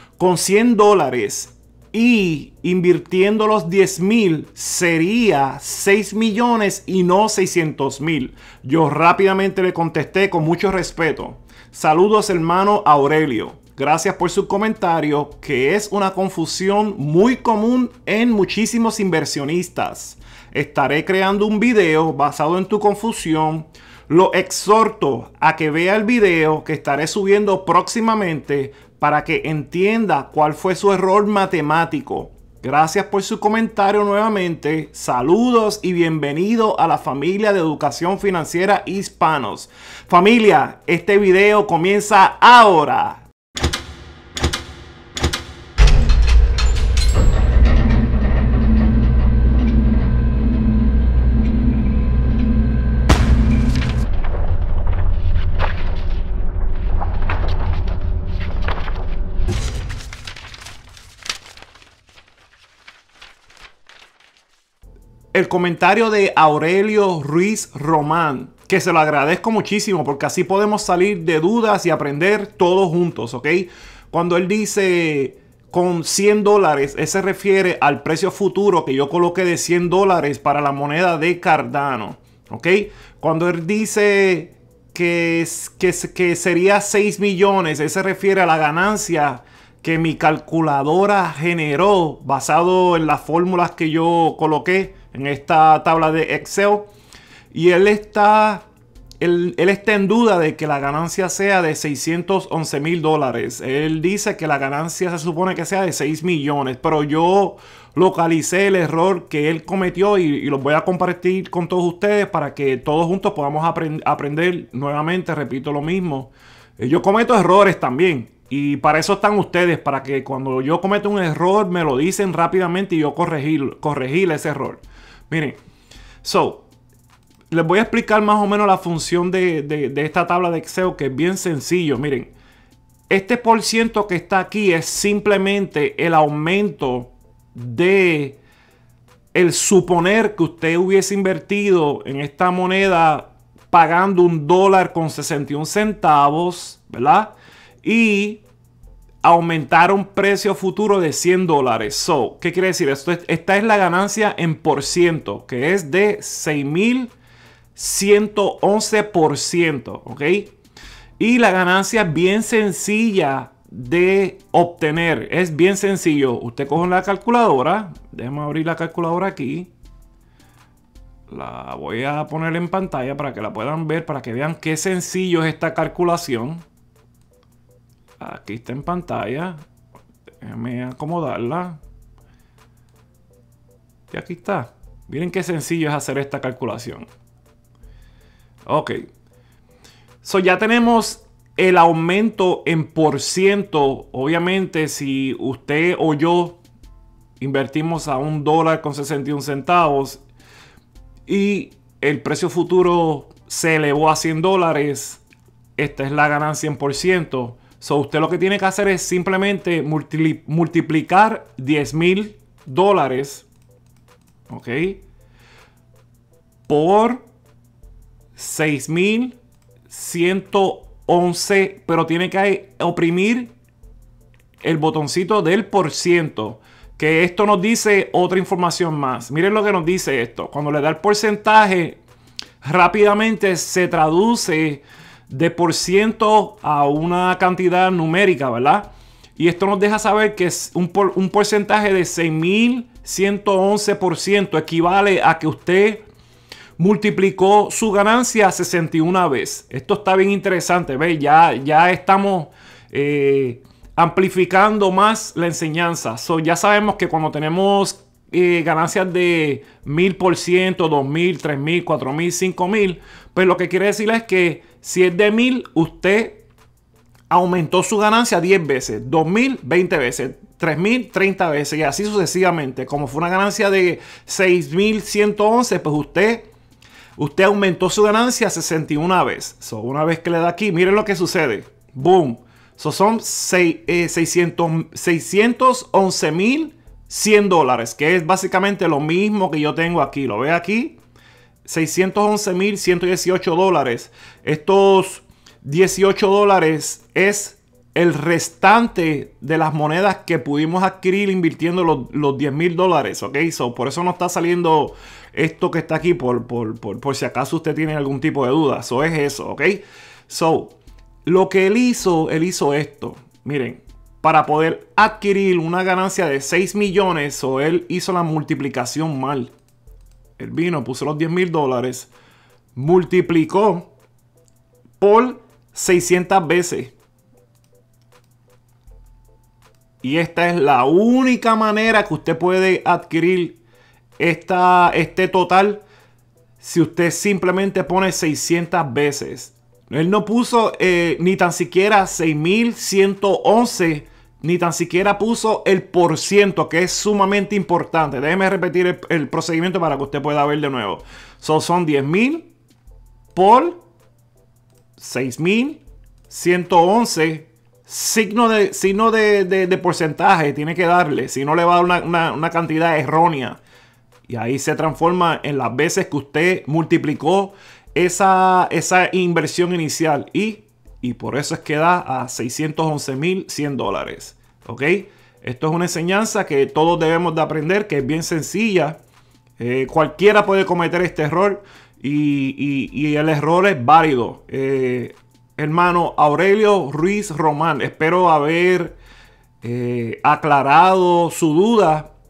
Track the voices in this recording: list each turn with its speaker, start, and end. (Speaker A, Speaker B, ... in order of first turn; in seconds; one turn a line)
Speaker A: 0.2-43.3
Speaker A: 65.3-96.9
Speaker A: 97.5-98.7
Speaker A: 99.2-125.6
Speaker A: 126.2-126.7
Speaker A: 127.5-132.3
Speaker A: 133.1-138.4
Speaker A: 139.3-148.4
Speaker A: 149.2-157.1
Speaker A: 157.8-160.5
Speaker A: 161.2-169.7
Speaker A: 171.3-176.7
Speaker A: 178.2-179.6
Speaker A: 180.4-181.8
Speaker A: 184.1-187.1
Speaker A: 188.7-189.0
Speaker A: 190.2-196.6
Speaker A: 197.4-200.2
Speaker A: 201.2-205.2
Speaker A: 205.8-213.5
Speaker A: 214.5-215.0
Speaker A: 216.7-217.2
Speaker A: 218.4-219.4
Speaker A: 219.9-223.5
Speaker A: 224.6-232.0
Speaker A: 232.6-246.1
Speaker A: 246.8-266.4
Speaker A: 267.3-276.5
Speaker A: 277.2-291.0
Speaker A: 291.6-310.7
Speaker A: 311.2-319.5
Speaker A: 320.4-322.1
Speaker A: 322.8-323.9
Speaker A: 325.0-326.9
Speaker A: 330.0-333.6
Speaker A: 334.2-335.8
Speaker A: 336.6-352.5
Speaker A: 353.3-353.8
Speaker A: 355.0-363.6
Speaker A: 364.3-379.0
Speaker A: 379.6-389.0
Speaker A: 389.6-392.1